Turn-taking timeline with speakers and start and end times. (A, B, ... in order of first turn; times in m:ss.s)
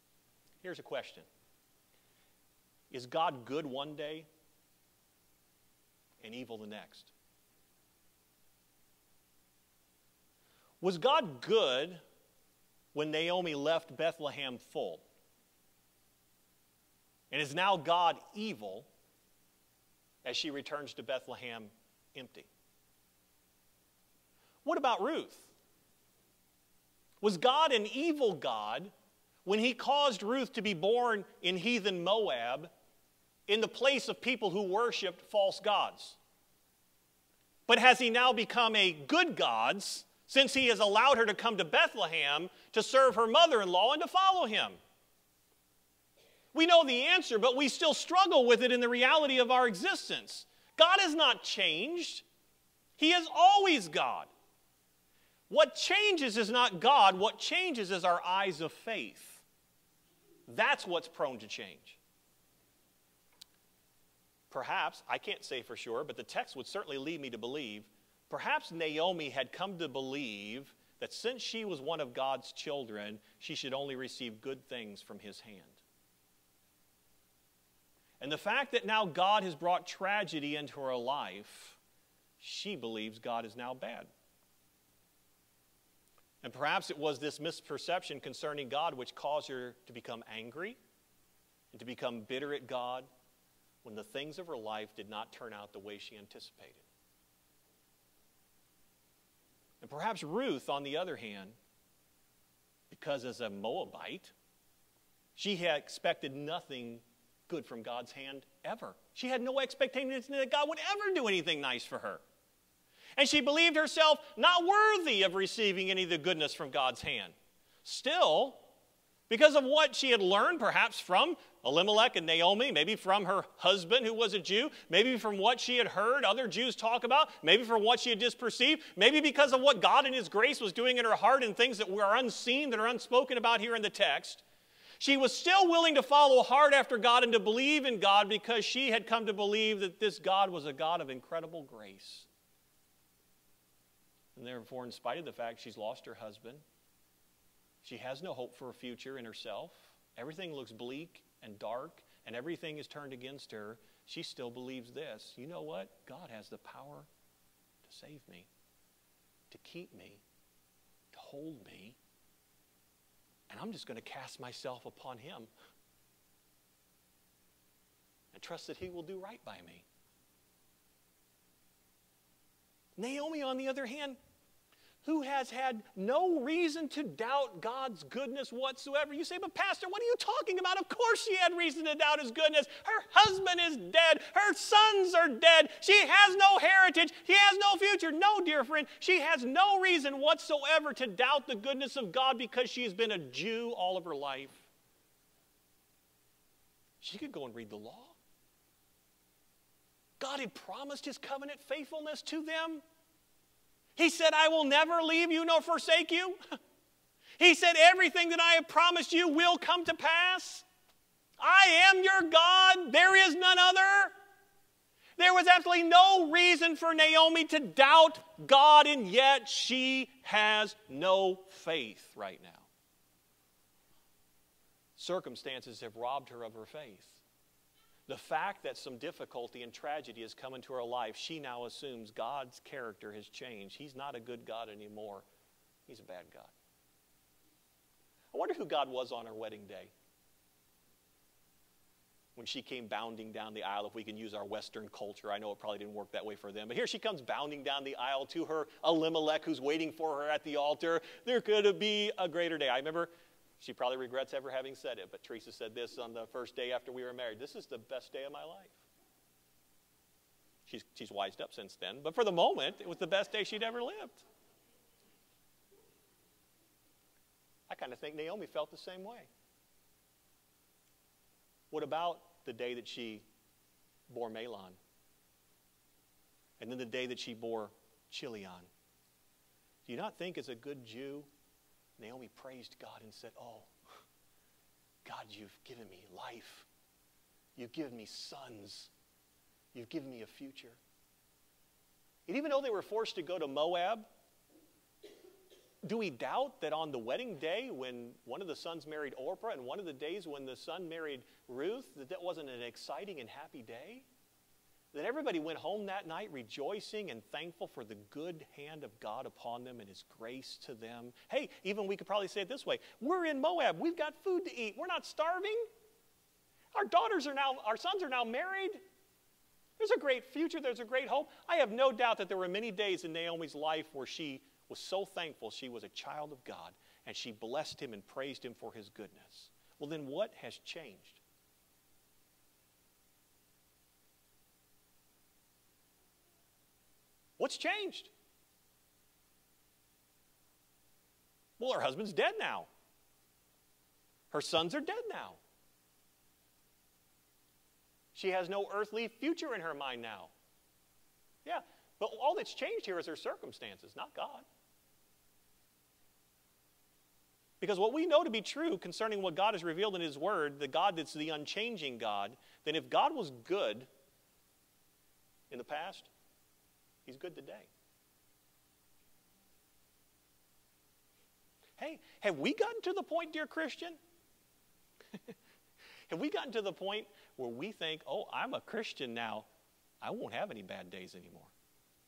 0:00.6-0:01.2 A
0:02.9-0:04.3 A
0:06.2-0:07.1 A
0:10.8-0:12.0 A
0:12.9-0:15.0 A
0:17.3-0:18.9 A
0:20.2-0:22.5 A
0:24.6-0:25.5 A
0:27.2-0:28.9 A
0:29.4-0:32.7 A
0:33.5-0:36.2 A
0:37.7-0:44.8 A
0:46.5-0:52.2 A
0:53.0-0:54.3 A
0:55.5-0:59.4 A
1:00.5-1:02.0 A
1:04.5-1:15.8 A
1:18.2-1:21.8 A
1:22.4-1:24.1 A
1:26.4-1:30.8 A
1:31.7-1:33.1 A
1:33.8-1:36.8 A
1:39.8-1:41.6 A
1:42.9-1:44.3 A
1:45.4-1:52.2 A
1:53.2-1:58.6 A
1:59.3-2:14.4 A
2:15.0-2:22.3 A
2:24.4-2:26.6 A
2:27.8-2:37.1 A
2:37.8-2:38.5 A
2:39.5-2:40.2 A
2:41.1-2:42.0 A
2:43.5-2:45.5 A
2:48.3-2:49.8 A
2:53.0-2:54.2 A
2:55.0-3:14.7 A
3:17.0-3:18.1 A
3:20.2-3:22.8 A
3:24.0-3:26.4 A
3:27.4-3:30.6 A
3:31.4-3:34.1 A
3:35.2-3:42.7 A
3:45.0-3:47.2 A
3:48.1-3:55.3 A
3:55.9-3:56.5 A
3:58.3-3:59.9 A
4:02.4-4:18.8 A
4:20.7-4:24.2 A
4:27.7-4:29.3 A
4:31.7-4:33.2 A
4:34.1-4:34.8 A
4:36.6-4:38.7 A
4:39.9-4:41.3 A
4:42.0-4:43.7 A
4:45.0-4:46.7 A
4:47.6-4:48.9 A
4:49.7-4:50.8 A
4:52.3-4:54.0 A
4:55.8-5:04.0 A
5:04.9-5:15.6 A
5:16.7-5:18.8 A
5:19.8-5:31.2 A
5:37.4-5:38.1 A
5:41.6-5:42.7 A
5:44.3-5:45.4 A
5:48.1-5:50.3 A
5:51.4-5:54.4 A
5:57.6-6:03.9 A
6:05.5-6:06.1 A
6:07.0-6:07.7 A
6:11.8-6:14.0 A
6:16.1-6:19.5 A
6:20.0-6:21.5 A